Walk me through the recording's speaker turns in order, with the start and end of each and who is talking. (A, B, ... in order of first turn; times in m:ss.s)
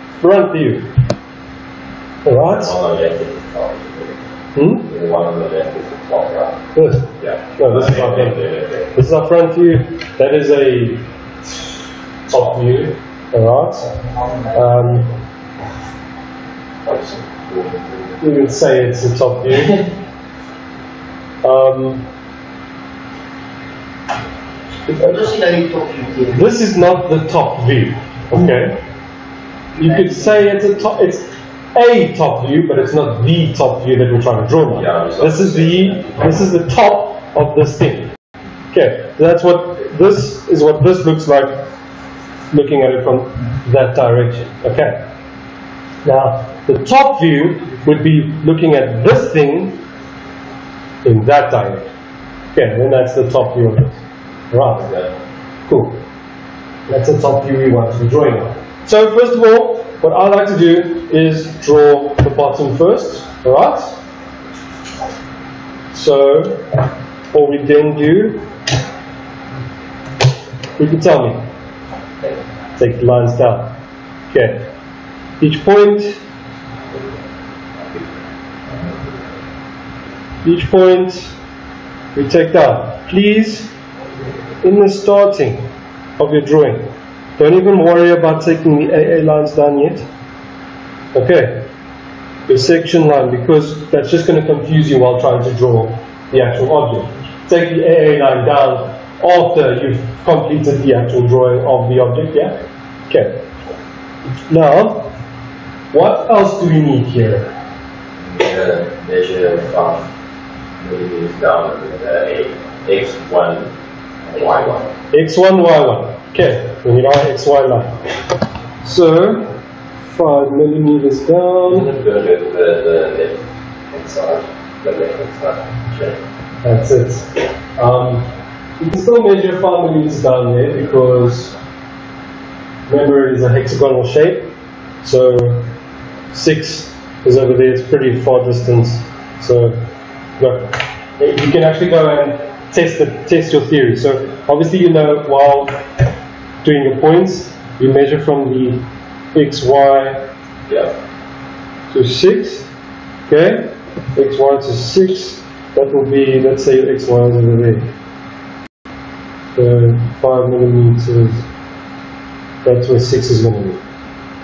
0:00.2-0:00.9 A
0:02.2-0:02.7 A
0:02.4-0:04.2 B
0:04.5-0:04.9 A
0:04.8-0:08.9 B
0:06.7-0:08.4 A
0:08.9-0:11.1 A
0:12.3-0:13.9 A
0:12.3-0:12.9 B
0:13.9-0:14.7 C
0:14.5-0:15.1 A
0:16.8-0:18.2 B
0:18.2-0:19.9 A
0:21.4-0:22.0 A
0:24.9-0:25.3 A
0:24.9-0:26.4 C
0:26.3-0:28.8 A
0:29.8-0:30.5 C
0:29.8-0:38.1 A
0:34.7-0:36.2 B
0:38.7-0:41.6 A
0:42.5-0:45.0 A
0:46.0-0:49.8 A
0:51.0-0:51.9 A
0:52.5-0:54.9 A
0:54.8-0:55.1 B
0:55.7-0:56.0 A
0:56.9-1:04.0 A
1:05.9-1:06.7 A
1:07.3-1:08.5 A
1:10.8-1:11.4 A
1:12.8-1:13.8 A
1:14.3-1:14.7 A
1:15.4-1:16.2 A
1:20.4-1:21.3 A
1:22.1-1:23.7 A
1:24.6-1:25.7 A
1:26.2-1:30.0 A
1:31.1-1:31.6 A
1:32.5-1:43.4 A
1:44.5-1:45.1 A
1:45.9-1:47.5 A
1:48.2-1:50.1 B
1:50.8-1:53.7 B
1:54.3-1:54.9 B
1:55.1-1:58.0 A
1:58.8-1:59.6 A
2:00.1-2:01.9 A
2:01.7-2:06.2 B
2:06.6-2:08.3 A
2:08.8-2:11.5 A
2:12.9-2:15.7 A
2:16.3-2:19.8 A
2:20.4-2:25.8 A
2:26.6-2:30.2 A
2:30.7-2:30.9 B
2:31.9-2:32.7 A
2:33.3-2:37.9 A
2:39.5-2:41.4 A
2:42.6-2:43.8 A